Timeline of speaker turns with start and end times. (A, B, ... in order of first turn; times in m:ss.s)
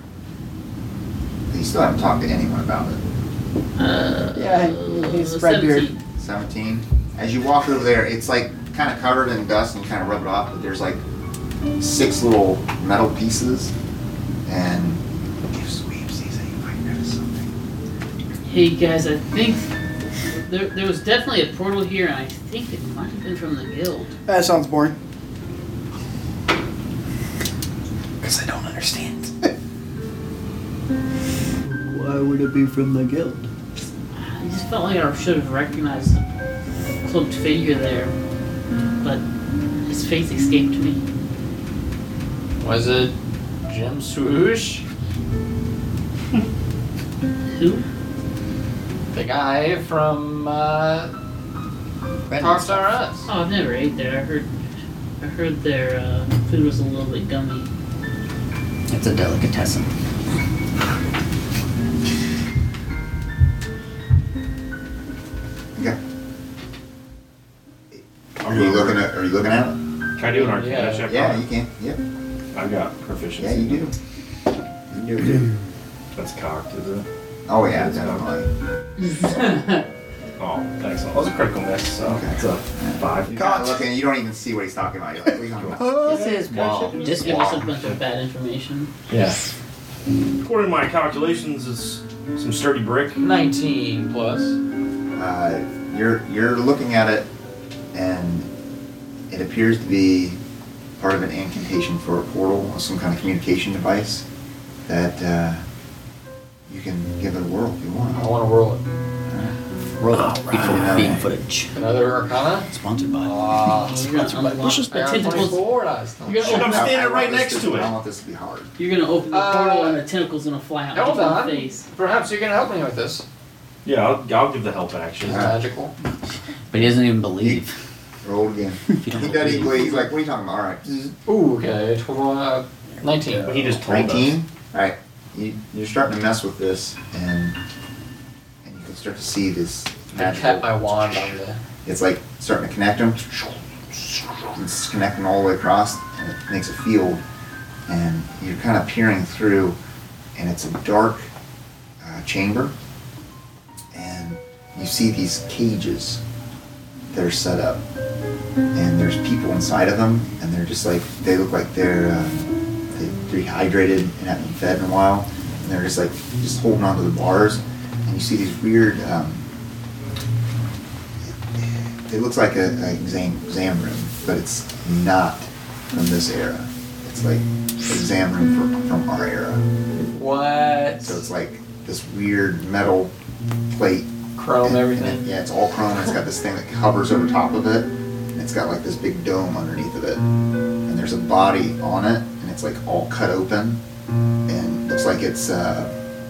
0:01.5-0:03.0 A
0:03.8-0:06.0 B
0:04.3-0:05.9 C
0:06.2-0:11.0 A
0:11.8-0:13.7 A
0:14.4-0:17.5 A
0:18.4-0:19.7 B
0:20.3-0:24.1 B
0:24.3-0:25.0 C
0:28.2-0:29.5 C
0:31.7-0:33.4 D
0:34.2-0:36.2 B
0:37.0-0:38.1 B
0:39.8-0:41.0 B
0:42.6-0:43.1 E
0:43.6-0:44.8 E
0:47.5-0:47.8 B
0:49.1-0:51.1 E
0:52.3-0:53.0 D
0:52.4-0:53.3 E
0:53.3-0:54.5 B
0:55.2-0:57.7 B
0:58.9-0:59.9 D
1:07.9-1:09.8 A
1:08.4-1:09.0 F
1:10.2-1:11.5 F
1:10.2-1:11.1 E
1:11.0-1:12.0 A
1:12.5-1:13.9 F
1:13.4-1:13.9 A
1:14.9-1:15.5 A
1:16.1-1:17.0 F
1:17.5-1:18.5 A
1:17.7-1:18.3 F
1:19.0-1:19.8 B
1:20.4-1:23.6 F
1:22.0-1:26.2 A
1:23.3-1:23.8 C
1:25.6-1:25.9 F
1:25.8-1:26.4 C
1:25.8-1:27.7 D
1:26.6-1:26.9 F
1:26.9-1:28.9 B
1:29.1-1:29.5 F
1:30.4-1:33.2 F
1:33.2-1:34.6 E
1:35.1-1:37.3 A
1:37.9-1:38.5 A
1:39.3-1:40.4 A
1:41.0-1:44.2 A
1:44.9-1:45.6 A
1:46.7-1:48.3 A
1:48.1-1:48.8 E
1:50.0-1:51.7 D
1:50.3-1:50.7 F
1:50.5-1:51.2 A
1:51.7-1:56.9 E
1:52.7-1:53.7 D
1:53.8-1:55.6 B
1:54.2-1:55.6 C
1:56.2-1:58.7 A
1:56.3-1:56.6 B
1:56.4-1:57.9 F
1:58.8-2:01.8 B
1:59.3-2:00.0 E
2:00.9-2:03.2 E
2:03.8-2:05.5 F
2:05.2-2:05.9 E
2:05.3-2:05.6 A
2:06.7-2:07.7 D
2:08.2-2:10.9 A
2:09.0-2:10.0 D
2:11.2-2:13.8 E
2:13.4-2:14.4 F
2:13.8-2:17.6 A
2:18.6-2:27.2 A
2:20.1-2:21.6 E
2:27.9-2:29.8 A
2:30.4-2:31.3 A
2:32.0-2:32.7 A
2:33.9-2:36.2 A
2:37.1-2:37.8 A
2:38.7-2:42.4 A
2:42.9-2:49.4 A
2:51.3-2:59.6 A
3:00.1-3:01.2 E
3:01.0-3:03.1 A
3:03.7-3:10.2 A
3:04.4-3:05.3 E
3:10.8-3:13.8 A
3:14.5-3:15.9 A